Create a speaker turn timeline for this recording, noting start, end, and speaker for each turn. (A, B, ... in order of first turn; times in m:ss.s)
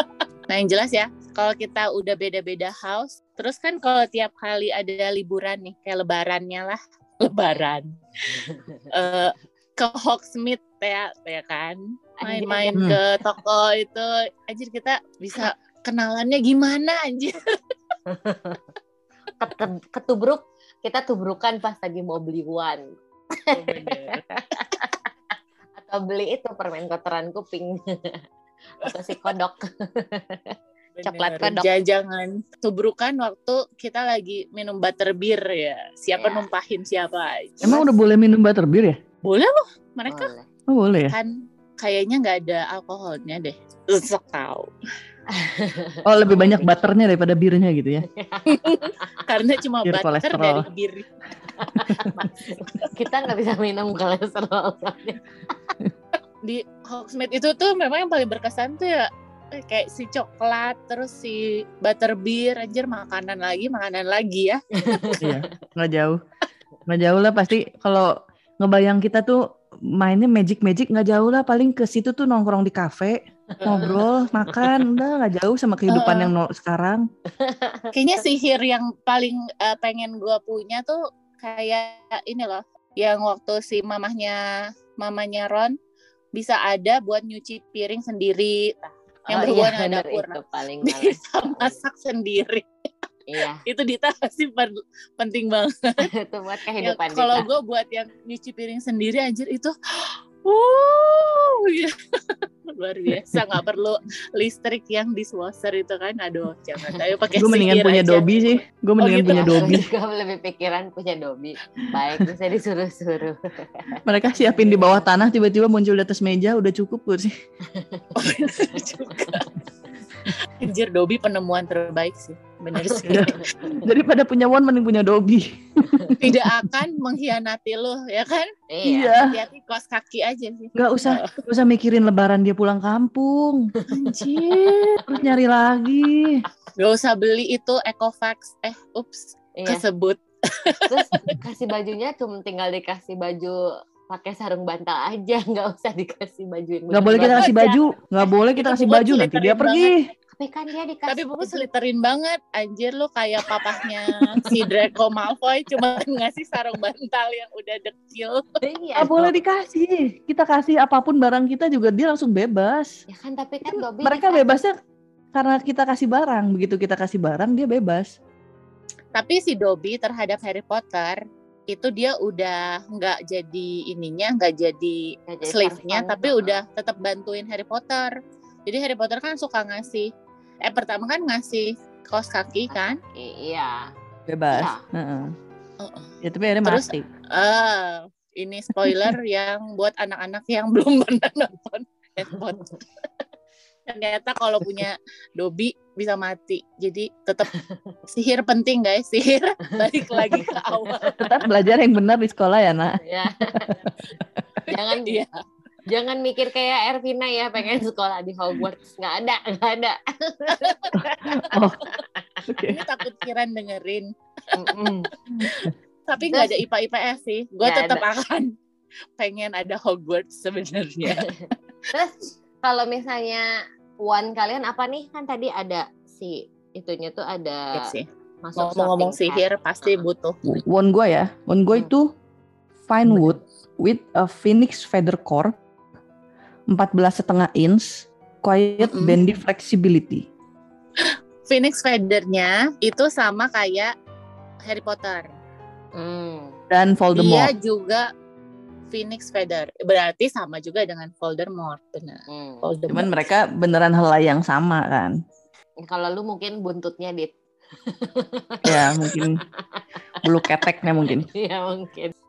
0:00.5-0:17.4 A
0:08.5-0:08.9 B
0:12.2-0:12.9 B
0:18.1-0:18.6 B
0:19.4-0:25.1 B
0:23.5-0:24.2 A
0:25.8-0:28.2 B
0:28.8-0:31.7 B
0:28.8-0:29.3 A
0:31.0-0:37.9 A
0:36.2-0:36.5 B
0:37.6-0:39.0 C
0:39.2-0:40.3 A
0:40.1-0:40.5 B
0:40.7-0:41.2 C
0:41.1-0:44.7 A
0:45.3-0:46.7 B
0:46.0-0:48.0 C
0:48.1-0:49.2 B
0:48.5-0:51.1 A
0:49.8-0:50.6 C
0:51.5-0:55.7 B
0:51.7-0:52.3 C
0:56.4-1:05.1 A
1:04.8-1:05.5 B
1:05.2-1:06.2 C
1:06.9-1:09.4 C
1:10.0-1:17.0 C
1:13.6-1:14.0 A
1:14.5-1:14.8 B
1:15.9-1:16.3 A
1:17.3-1:17.9 B
1:17.9-1:24.4 A
1:25.0-1:25.8 A
1:26.3-1:32.7 A
1:29.3-1:31.8 B
1:33.3-1:33.6 B
1:33.6-1:36.0 A
1:36.0-1:37.5 B
1:36.8-1:39.8 A
1:40.4-1:42.0 A
1:42.7-1:49.8 A
1:47.4-1:49.9 C
1:49.3-1:55.1 B
1:54.0-1:57.3 C
1:57.7-1:58.1 B
1:58.1-1:59.5 A
1:58.7-1:59.4 B
2:00.5-2:03.5 A
2:03.0-2:06.3 C
2:06.2-2:08.5 A
2:08.7-2:09.2 B
2:08.8-2:09.3 C
2:09.2-2:11.3 A
2:10.8-2:13.7 C
2:13.8-2:14.1 B
2:13.9-2:14.9 A
2:14.4-2:16.4 C
2:16.8-2:21.4 A
2:19.6-2:19.8 B
2:20.9-2:27.5 B
2:26.9-2:30.1 C
2:27.2-2:27.8 A
2:28.6-2:30.1 A
2:30.3-2:31.7 B
2:31.1-2:38.4 A
2:38.6-2:39.4 B
2:39.0-2:43.0 C
2:43.1-2:44.5 B
2:43.7-2:44.8 C
2:45.3-2:48.1 C
2:49.1-2:58.1 A
2:55.3-2:56.6 B
2:58.6-3:00.1 A
3:00.6-3:03.0 A
3:02.7-3:03.9 B
3:04.3-3:05.3 C
3:04.5-3:04.8 B
3:05.8-3:06.1 A
3:06.2-3:07.1 C
3:06.6-3:12.7 A
3:13.9-3:17.5 A
3:17.5-3:17.9 B
3:18.1-3:21.4 A
3:19.8-3:21.1 B
3:21.2-3:23.0 C
3:23.0-3:23.8 B
3:23.5-3:23.9 C
3:24.7-3:25.3 A
3:24.7-3:25.2 B
3:25.9-3:30.9 B
3:30.5-3:31.3 A
3:30.9-3:31.8 C
3:32.0-3:32.6 B
3:32.5-3:32.8 C
3:32.6-3:38.5 A
3:34.6-3:35.1 B
3:36.3-3:36.6 B
3:37.6-3:38.0 B
3:39.2-3:41.2 A
3:41.1-3:43.5 B
3:44.0-3:47.8 B
3:47.7-3:48.0 A
3:48.4-3:49.4 B
3:48.6-3:50.6 A
3:50.7-3:52.1 C
3:52.9-3:55.5 C
3:56.7-4:00.2 C
3:58.8-3:59.2 A
4:01.0-4:03.9 A
4:04.6-4:05.3 A
4:06.0-4:06.6 B
4:06.7-4:07.5 C
4:07.1-4:08.1 A
4:08.9-4:13.2 A
4:12.3-4:12.6 B
4:12.9-4:15.1 C
4:15.8-4:17.3 B
4:17.8-4:19.8 B
4:18.6-4:19.4 C
4:20.2-4:21.3 C
4:21.2-4:22.1 B